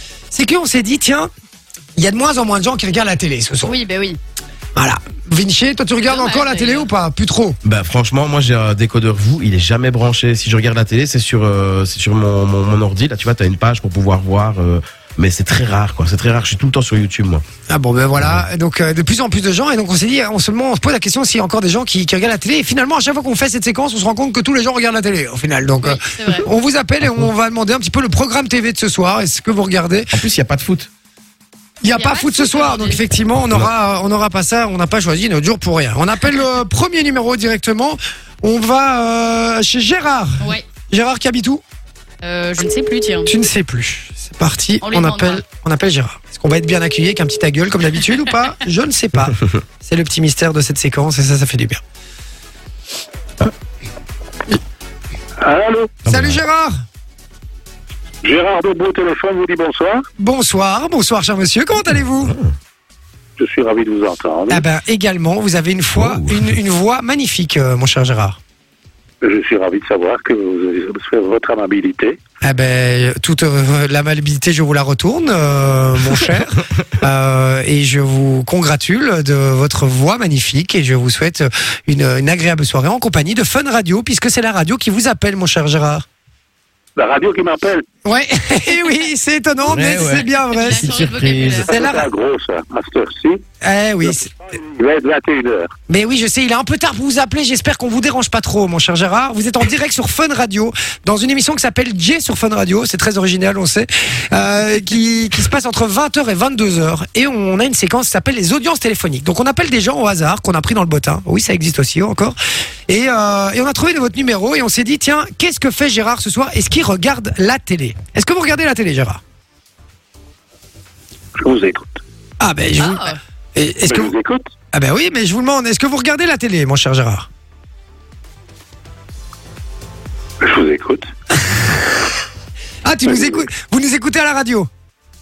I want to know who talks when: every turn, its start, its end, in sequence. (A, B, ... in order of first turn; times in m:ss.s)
0:00.3-0:01.3 A
0:02.0-0:03.8 A
0:03.6-0:04.2 B
0:04.8-0:07.6 A
0:06.0-0:06.9 B
0:07.6-0:17.4 C
0:17.7-0:30.1 A
0:18.2-0:18.5 C
0:25.8-0:26.5 B
0:27.0-0:27.3 C
0:30.1-0:30.9 C
0:31.8-0:41.6 A
0:31.9-0:33.1 B
0:42.2-0:43.3 B
0:43.3-0:51.8 A
0:44.8-0:45.4 B
0:55.4-0:56.0 D
0:56.0-0:56.4 C
0:56.1-0:56.7 A
0:58.2-1:00.0 D
1:00.2-1:02.4 A
1:02.2-1:02.5 C
1:03.4-1:04.6 D
1:04.5-1:08.4 A
1:06.0-1:06.6 C
1:09.2-1:12.2 D
1:12.4-1:26.0 A
1:27.0-1:27.8 D
1:28.0-1:31.0 A
1:29.7-1:31.7 C
1:30.6-1:31.7 B
1:31.6-1:33.4 D
1:31.7-1:32.1 A
1:33.6-1:34.3 A
1:34.0-1:35.7 D
1:35.9-1:52.4 A
1:52.9-1:59.2 A
2:01.4-2:02.0 D
2:02.4-2:04.1 A
2:02.8-2:03.2 B
2:03.9-2:04.5 D
2:04.7-2:07.3 A
2:10.4-2:11.1 D
2:12.8-2:14.7 A
2:13.1-2:13.4 D